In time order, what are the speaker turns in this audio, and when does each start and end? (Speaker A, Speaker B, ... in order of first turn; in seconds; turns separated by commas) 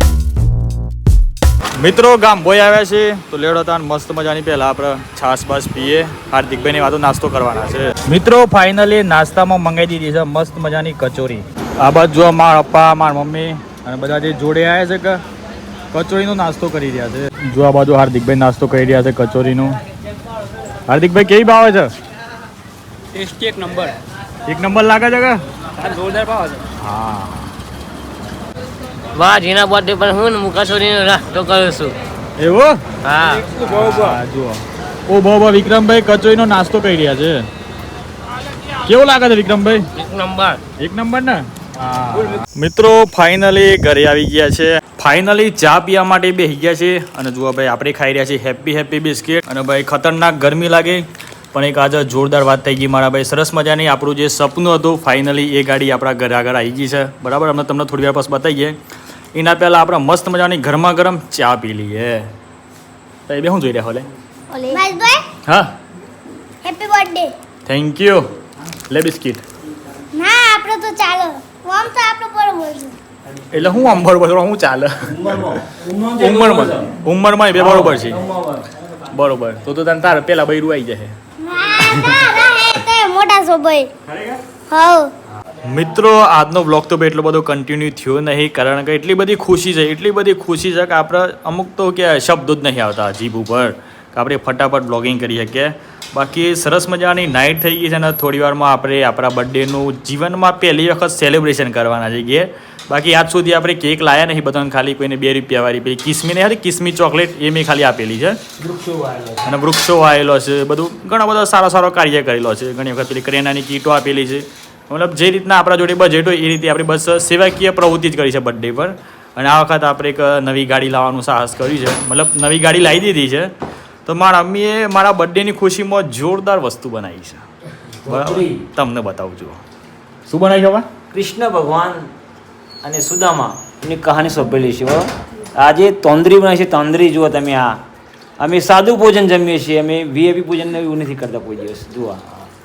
Speaker A: 1.8-15.2, Speaker A: 15.9-19.8, Speaker A: 20.9-21.9, Speaker B: 23.1-23.9, Speaker A: 24.5-25.4, Speaker B: 25.8-26.6, Speaker A: 26.8-27.5, Speaker C: 29.1-32.0, Speaker A: 32.4-32.8, Speaker C: 33.1-33.4, Speaker B: 33.5-34.2, Speaker A: 33.6-37.4, Speaker A: 38.8-39.9, Speaker C: 40.0-40.6, Speaker A: 40.8-58.8, Speaker A: 59.4-62.3, Speaker A: 63.3-64.1, Speaker D: 64.6-65.3, Speaker D: 66.6-67.3, Speaker A: 67.7-68.3, Speaker A: 68.9-69.4, Speaker D: 70.1-73.0, Speaker A: 73.5-75.1, Speaker E: 75.1-76.9, Speaker A: 76.2-78.2, Speaker E: 77.5-78.7, Speaker A: 79.1-81.2, Speaker D: 81.4-83.9, Speaker A: 81.9-82.2, Speaker D: 84.7-85.1, Speaker A: 85.6-108.4, Speaker E: 108.6-109.5, Speaker A: 109.5-123.5, Speaker A: 124.1-127.4, Speaker E: 128.1-128.6, Speaker A: 128.1-129.6, Speaker A: 130.3-130.9, Speaker E: 131.1-132.1, Speaker E: 132.8-137.8, Speaker E: 138.4-142.3